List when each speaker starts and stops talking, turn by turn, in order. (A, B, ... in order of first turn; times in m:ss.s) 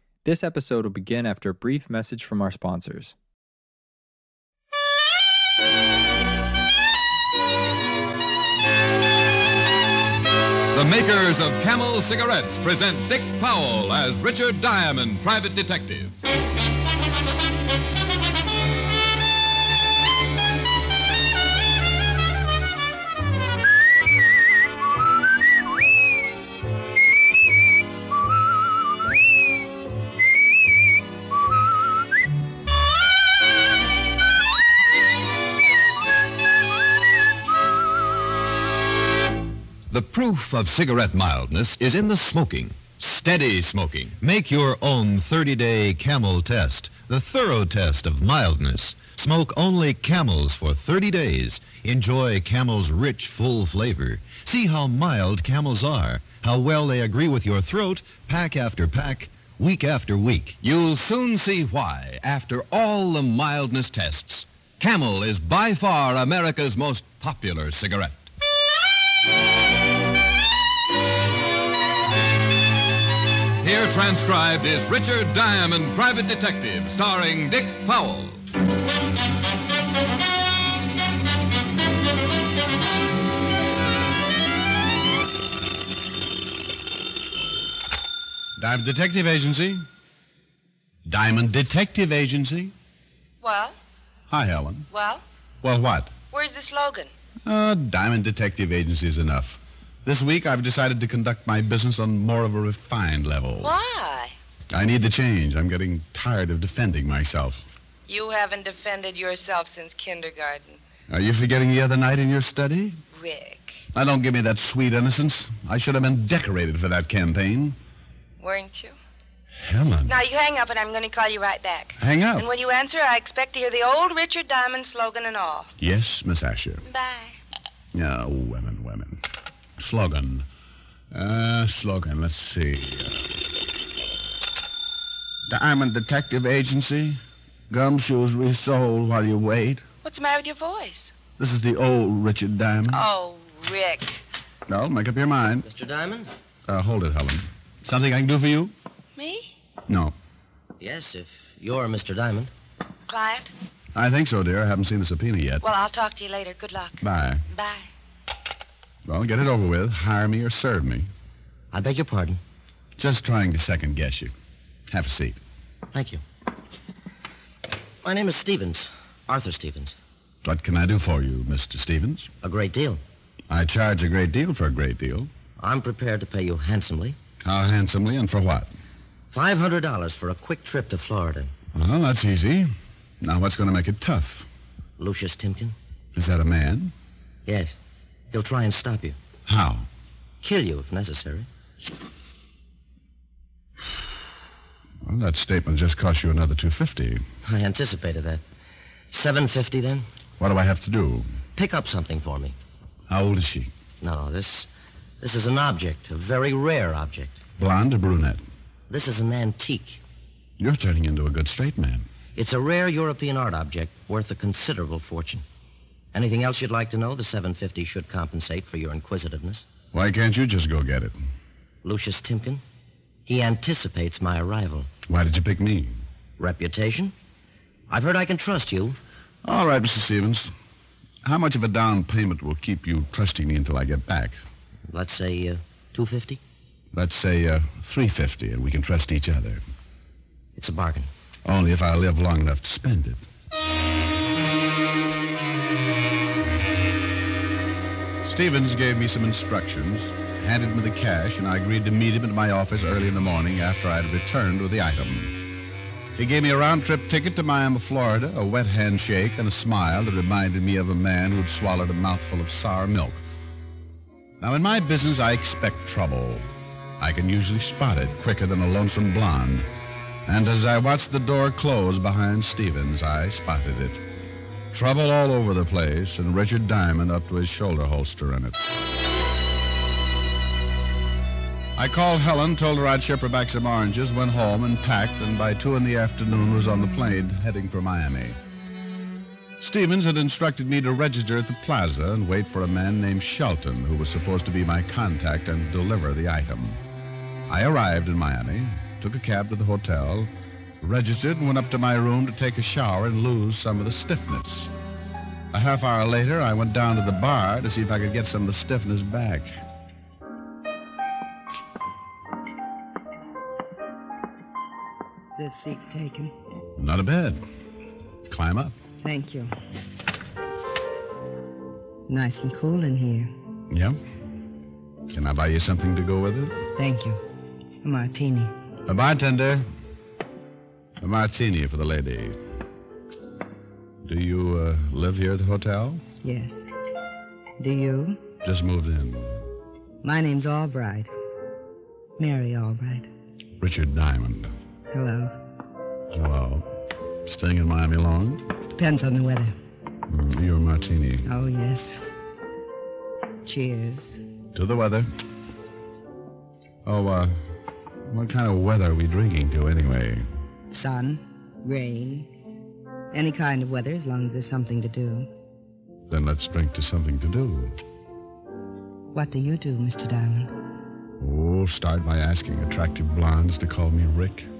0:00.2-0:03.1 A
0:10.7-0:16.1 B
0:39.9-0:44.2 B
0:44.2-1:00.6 C
1:00.6-1:08.3 B
1:13.6-1:18.4 B
1:28.6-1:29.8 D
1:31.0-1:32.7 D
1:33.4-1:33.8 E
1:34.3-1:34.9 D
1:34.9-1:35.2 E
1:35.6-1:36.1 D
1:36.3-1:37.1 E
1:37.4-1:43.7 D
1:43.6-1:44.3 E
1:44.7-1:47.6 D
1:48.1-1:50.8 E
1:51.1-1:53.0 D
1:53.1-1:53.7 E
1:53.9-1:57.8 D
1:58.4-1:59.0 E
1:59.6-2:00.2 D
2:00.0-2:05.7 E
2:02.0-2:02.4 D
2:05.8-2:06.8 D
2:06.8-2:07.4 E
2:07.9-2:09.2 D
2:09.8-2:10.4 D
2:11.1-2:13.3 D
2:15.5-2:17.2 D
2:17.7-2:19.8 D
2:20.0-2:21.1 E
2:21.4-2:23.0 D
2:22.9-2:24.2 E
2:24.7-2:25.6 D
2:25.6-2:26.3 F
2:26.7-2:28.7 D
2:29.2-2:29.5 E
2:29.9-2:30.1 D
2:30.8-2:32.5 F
2:33.1-2:33.5 E
2:33.9-2:35.6 D
2:35.6-2:37.9 E
2:37.0-2:37.4 D
2:39.0-2:41.1 D
2:41.7-2:42.4 F
2:43.0-2:44.3 D
2:44.9-2:45.4 D
2:45.9-2:46.2 F
2:48.0-2:50.0 F
2:50.4-2:52.3 D
2:52.4-2:53.0 F
2:53.5-2:55.3 D
2:55.6-2:57.2 F
2:57.4-2:58.7 D
2:59.3-3:01.5 F
3:01.7-3:04.5 D
3:05.0-3:05.7 F
3:06.1-3:06.9 D
3:07.4-3:07.8 F
3:08.3-3:09.2 F
3:09.5-3:09.9 D
3:10.4-3:11.5 F
3:15.0-3:17.2 D
3:17.4-3:18.4 F
3:19.1-3:20.0 F
3:20.4-3:21.3 D
3:21.5-3:22.6 F
3:23.1-3:23.7 D
3:24.0-3:24.7 F
3:25.2-3:27.4 F
3:27.6-3:28.4 D
3:28.9-3:30.0 F
3:30.6-3:32.0 D
3:32.3-3:35.4 F
3:36.1-3:39.7 F
3:39.9-3:41.2 D
3:41.8-3:42.6 F
3:43.2-3:44.9 F
3:45.1-3:46.0 D
3:46.4-3:47.1 F
3:47.9-3:49.0 F
3:49.4-3:50.5 D
3:51.2-3:54.4 D
3:54.9-3:56.4 F
3:56.9-3:59.6 D
4:00.6-4:01.1 F
4:01.4-4:03.2 D
4:08.2-4:15.3 D
4:16.2-4:23.2 D
4:24.4-4:26.4 D
4:27.0-4:29.6 D
4:30.3-4:34.0 D
4:34.7-4:38.6 D
4:41.8-4:48.4 D
4:49.6-4:56.8 D
4:57.5-5:00.3 D
5:00.8-5:04.7 D
5:05.5-5:09.5 D
5:15.3-5:16.3 G
5:16.8-5:17.4 D
5:18.3-5:18.7 D
5:19.0-5:19.5 G
5:22.1-5:23.3 G
5:23.7-5:24.0 D
5:25.1-5:26.6 D
5:26.8-5:27.2 G
5:27.8-5:28.5 G
5:28.9-5:29.6 D
5:31.0-5:32.4 D
5:34.0-5:36.0 D
5:36.2-5:36.7 G
5:37.6-5:38.2 G
5:38.4-5:39.4 D
5:40.0-5:41.1 G
5:42.2-5:43.1 G
5:43.6-5:44.5 D
5:44.9-5:45.3 G
5:46.1-5:46.7 D
5:47.2-5:48.4 D
5:48.7-5:49.5 G
5:50.1-5:51.2 D
5:51.2-5:52.0 G
5:53.4-5:54.2 G
5:54.5-5:55.1 D
5:56.8-5:57.4 D
5:58.1-6:00.2 D
6:00.7-6:02.3 G
6:03.1-6:05.3 G
6:06.1-6:07.7 D
6:09.1-6:10.5 G
6:11.2-6:14.5 D